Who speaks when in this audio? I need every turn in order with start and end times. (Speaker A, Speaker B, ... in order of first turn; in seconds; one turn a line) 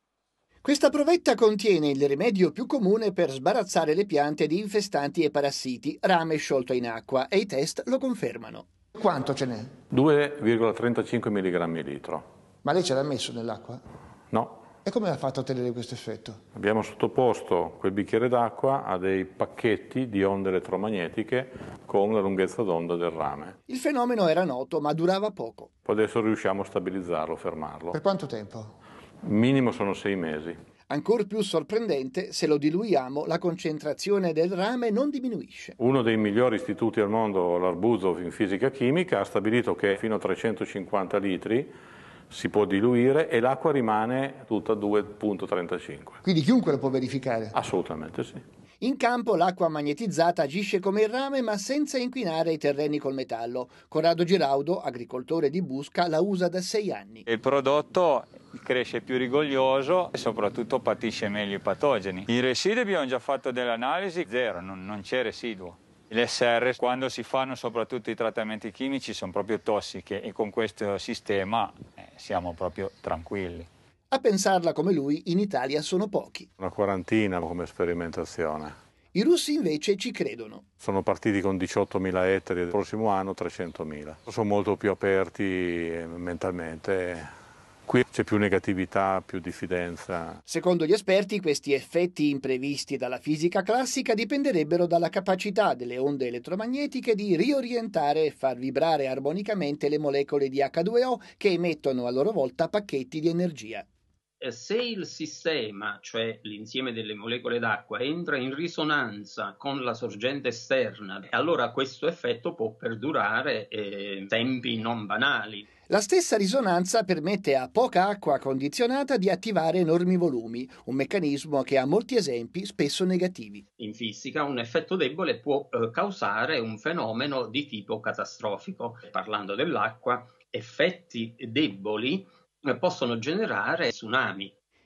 Speaker A: 0.6-8.7
Speaker B: 9.2-9.5
Speaker C: 9.9-12.2
Speaker B: 12.7-13.8
Speaker C: 14.3-14.7
Speaker B: 14.9-16.4
Speaker C: 16.5-23.6
Speaker A: 23.7-25.7
Speaker C: 25.9-28.0
Speaker B: 27.9-28.6
Speaker C: 29.2-30.6
Speaker A: 30.9-35.8
Speaker C: 35.8-41.7
Speaker C: 42.3-46.2
Speaker B: 46.3-47.5
Speaker C: 47.5-48.4
Speaker A: 48.8-57.2
Speaker D: 57.3-73.7
Speaker A: 74.1-76.5
Speaker C: 76.6-78.8
Speaker A: 79.1-80.7
Speaker C: 80.8-87.3
Speaker C: 87.9-90.4
Speaker A: 90.5-103.9
Speaker E: 104.4-115.7
Speaker A: 115.9-123.6
Speaker E: 123.8-134.5